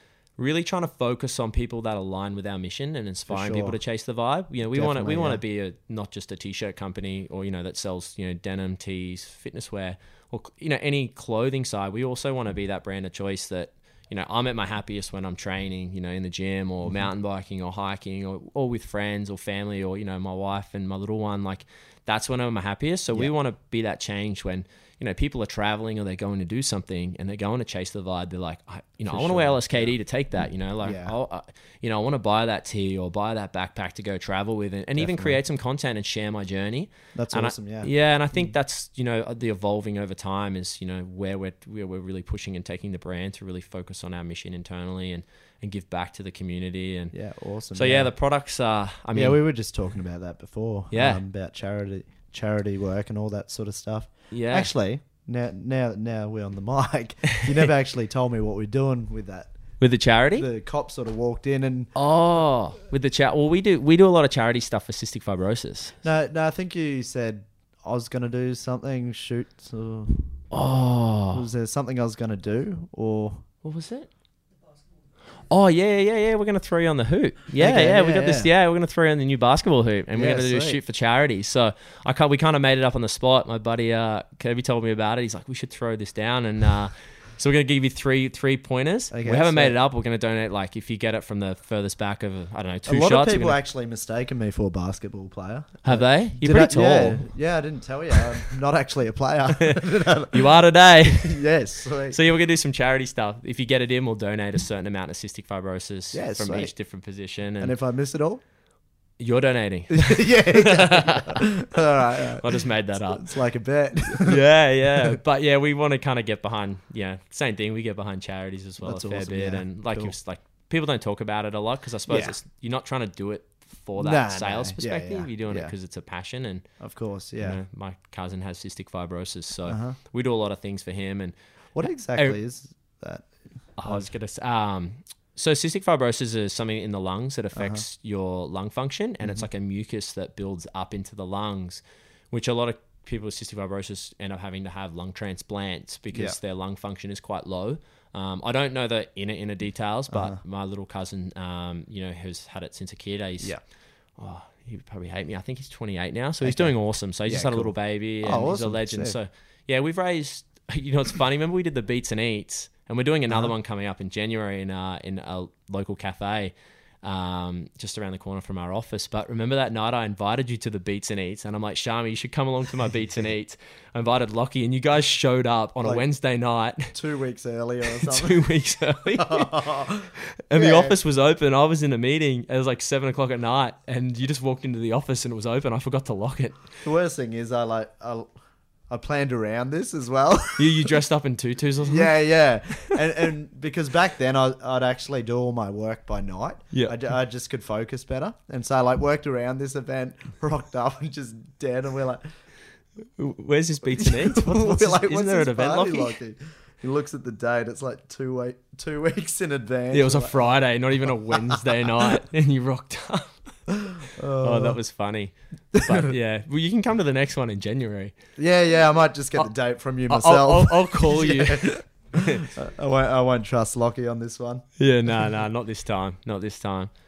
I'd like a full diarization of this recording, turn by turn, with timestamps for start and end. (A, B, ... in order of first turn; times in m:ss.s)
0:00.4-0:47.1 A
0:03.3-0:03.8 B
0:04.7-0:05.4 B
0:29.1-0:29.9 B
0:30.8-0:31.1 B
0:35.0-0:35.4 B
0:37.1-0:38.5 B
0:47.1-0:48.1 B
0:47.7-0:49.4 A
0:49.1-0:59.5 B
0:50.9-0:51.2 A
0:54.3-0:54.7 A
0:59.8-1:00.5 A
1:00.4-1:01.9 B
1:01.9-1:06.0 A
1:06.0-1:10.3 B
1:10.5-1:11.4 A
1:11.3-1:13.4 B
1:13.6-1:14.1 A
1:15.5-1:33.6 A
1:17.6-1:18.5 B
1:20.1-1:20.8 B
1:29.1-1:29.8 B
1:32.9-1:40.5 B
1:35.8-1:37.2 A
1:39.5-1:41.4 A
1:41.1-1:42.2 B
1:42.1-1:47.7 A
1:46.1-1:46.7 B
1:47.6-1:48.4 B
1:49.2-1:53.3 A
1:49.9-1:54.4 B
1:54.0-2:06.6 A
1:58.8-2:00.1 B
2:02.1-2:02.4 B
2:04.0-2:05.7 B
2:06.8-2:07.6 B
2:07.4-2:12.4 A
2:09.7-2:10.0 B
2:11.7-2:13.3 B
2:13.8-2:33.6 A
2:17.5-2:17.8 B
2:30.1-2:30.4 B
2:34.2-2:56.9 A
2:36.4-2:36.7 B
2:37.2-2:39.2 B
2:56.9-2:58.4 B
2:57.8-3:06.6 A
2:59.2-3:00.9 B
3:06.8-3:08.3 B
3:08.9-3:10.9 B
3:10.6-3:12.2 A
3:11.8-3:22.2 B
3:12.7-3:13.0 A
3:23.2-3:26.2 A
3:24.0-3:31.7 B
3:29.9-3:33.4 A
3:33.7-3:34.8 B
3:34.4-3:38.1 A
3:35.7-3:36.1 B
3:38.4-3:44.6 B
3:40.1-3:42.4 A
3:44.8-3:46.9 A